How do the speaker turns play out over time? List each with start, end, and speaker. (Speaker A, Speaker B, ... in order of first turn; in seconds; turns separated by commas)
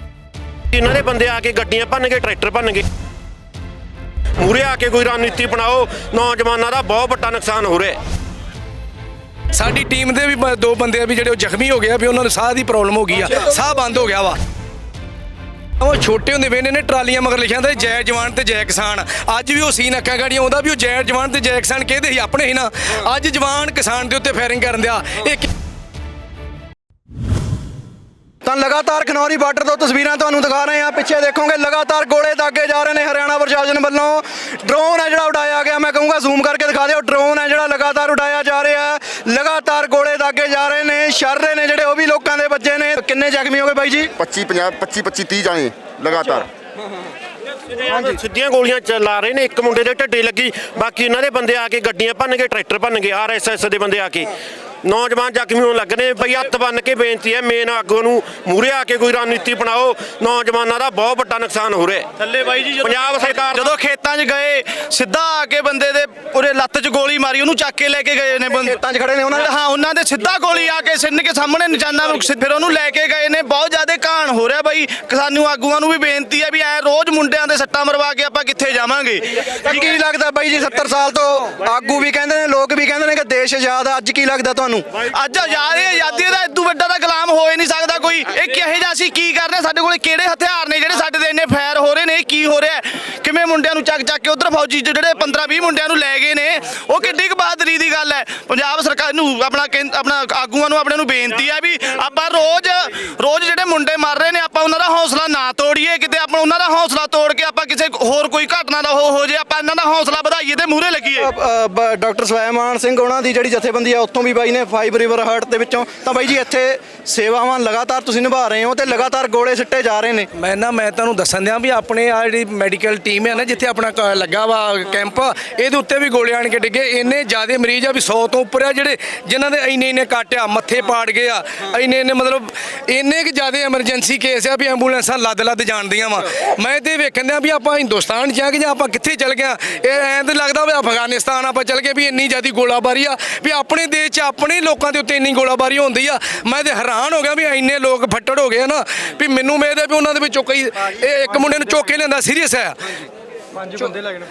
Speaker A: 0.7-2.8, Speaker A: 4.4-8.0, Speaker B: 9.5-14.4, Speaker B: 15.8-25.5, Speaker C: 28.4-44.1, Speaker D: 44.1-46.5, Speaker A: 47.9-54.3, Speaker A: 54.8-62.0, Speaker E: 62.3-68.8, Speaker A: 62.8-63.7, Speaker C: 68.6-69.5, Speaker E: 69.3-79.5, Speaker C: 79.5-84.8, Speaker E: 85.1-111.3, Speaker C: 111.2-120.3, Speaker B: 120.3-152.9